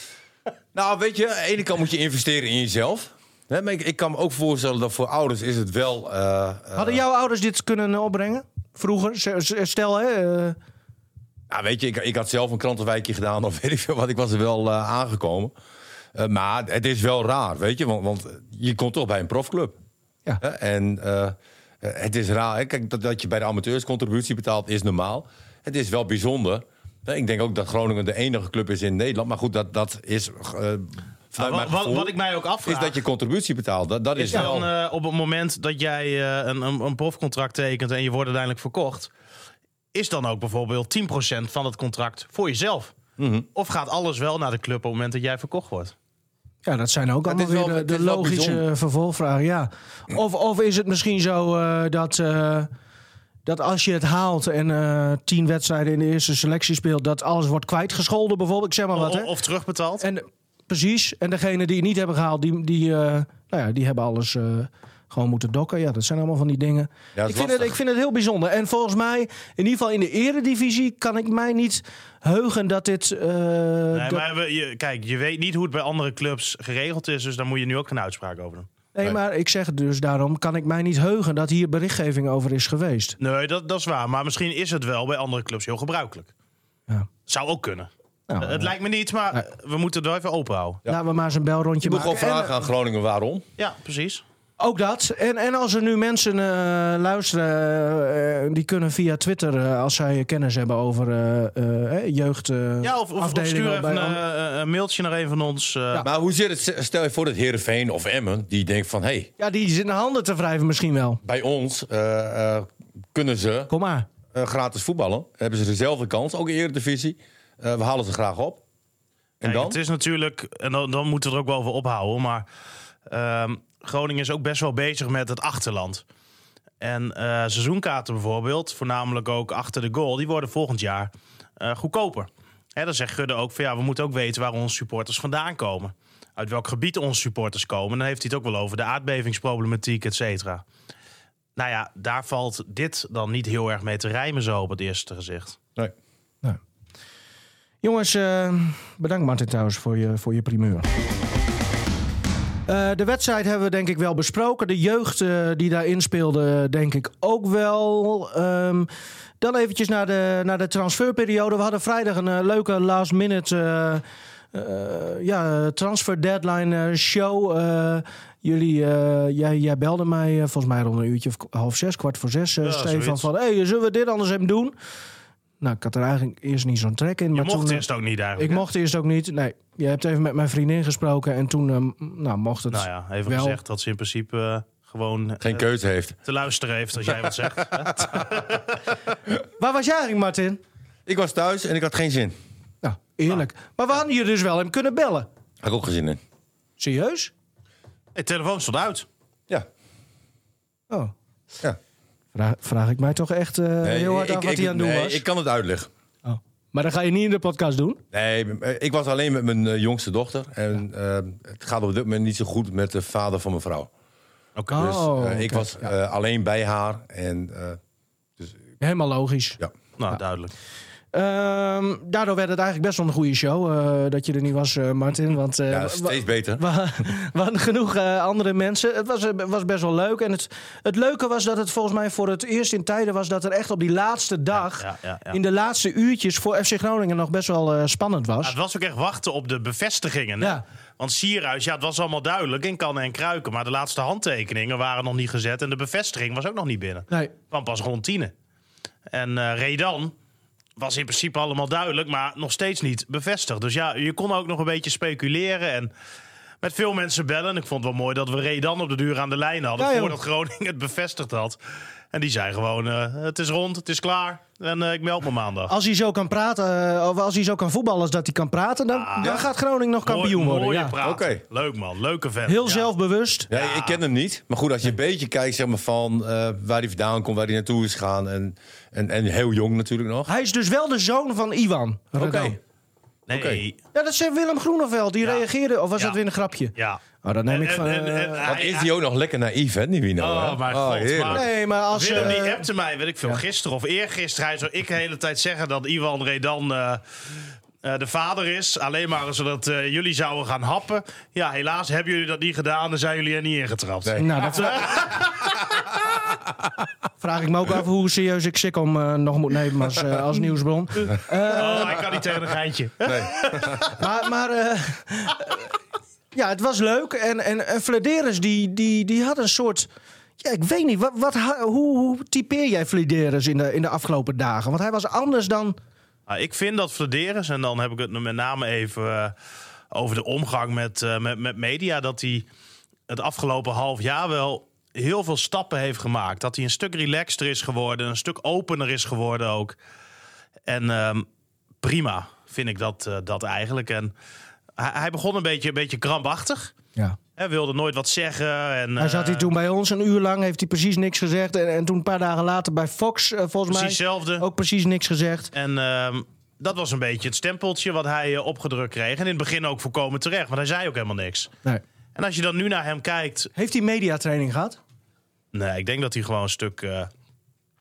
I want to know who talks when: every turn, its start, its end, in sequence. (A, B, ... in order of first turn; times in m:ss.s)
0:00.7-0:07.0 A
0:06.8-0:10.6 B
0:11.5-0:15.5 A
0:16.1-0:19.8 A
0:20.4-0:32.1 A
0:31.4-0:33.0 C
0:32.6-0:34.7 A
0:34.2-0:39.1 C
0:39.9-0:43.0 C
0:43.2-0:43.5 A
0:43.6-0:45.9 C
0:46.6-0:52.7 B
0:47.3-0:48.6 A
0:53.5-0:59.3 B
0:58.9-1:00.0 C
1:00.0-1:14.2 B
1:07.2-1:07.7 A
1:13.9-1:18.7 C
1:18.9-1:23.2 B
1:23.2-1:26.3 C
1:27.3-1:30.8 C
1:28.3-1:28.7 B
1:30.9-1:32.6 B
1:31.8-1:33.5 A
1:33.6-1:34.2 C
1:34.6-1:44.2 B
1:42.8-1:46.1 C
1:46.0-1:49.3 A
1:49.4-1:51.2 B
1:51.2-1:53.7 A
1:53.7-1:54.1 B
1:54.3-1:58.6 A
1:59.4-1:59.8 A
1:59.4-2:02.5 C
2:03.1-2:06.0 C
2:06.8-2:20.6 C
2:21.6-2:25.6 C
2:27.8-2:30.9 B
2:32.7-2:38.9 B
2:39.4-2:54.8 B
2:52.6-2:53.3 C
2:55.6-2:57.8 B
2:57.3-2:58.6 C
2:58.4-3:03.6 B
3:02.7-3:05.6 C
3:05.4-3:06.2 A
3:06.2-3:08.6 C
3:07.8-3:08.2 A
3:09.6-3:10.6 B
3:11.1-3:12.4 A
3:12.8-3:15.3 B
3:15.6-3:16.2 A
3:16.8-3:17.3 B
3:18.2-3:19.1 C
3:22.4-3:25.2 B
3:23.8-3:25.9 A
3:26.2-3:28.0 B
3:28.1-3:33.9 A
3:34.6-3:34.9 C
3:34.7-3:35.9 B
3:34.7-3:37.8 A
3:38.8-3:39.6 B
3:40.0-3:40.5 C
3:41.1-3:58.6 B
3:45.7-3:46.6 A
3:54.5-3:55.4 C
3:58.4-4:08.3 C
4:09.1-4:10.2 C
4:10.8-4:15.9 C
4:16.6-4:21.6 C
4:19.8-4:20.2 B
4:22.1-4:25.7 C
4:25.7-4:30.9 B
4:28.9-4:29.5 C
4:30.0-4:32.9 C
4:31.0-4:31.4 A
4:32.5-4:33.5 B
4:33.5-4:40.3 A
4:33.5-4:34.0 C
4:40.3-4:42.6 B
4:42.2-4:42.6 A
4:43.3-4:43.8 C
4:43.3-4:43.6 A
4:43.9-4:48.5 B
4:46.8-4:48.9 C
4:48.4-4:51.4 A
4:50.2-4:57.0 C
4:51.3-4:52.7 B
4:57.8-5:05.4 C
5:04.0-5:04.3 A
5:04.2-5:04.8 B
5:07.2-5:12.0 B
5:11.5-5:13.9 C
5:13.0-5:13.8 A
5:13.9-5:15.6 B
5:16.3-5:19.9 B
5:20.4-5:25.8 B
5:26.3-5:29.3 C
5:29.9-5:32.5 C
5:33.1-5:39.8 C
5:40.7-5:41.3 C
5:41.8-5:44.1 C
5:44.8-5:46.7 C
5:47.4-5:49.5 C
5:49.0-5:55.5 B
5:53.7-5:54.4 C
5:55.5-6:01.5 C
6:02.2-6:03.5 C
6:03.6-6:04.8 B
6:05.5-6:07.1 C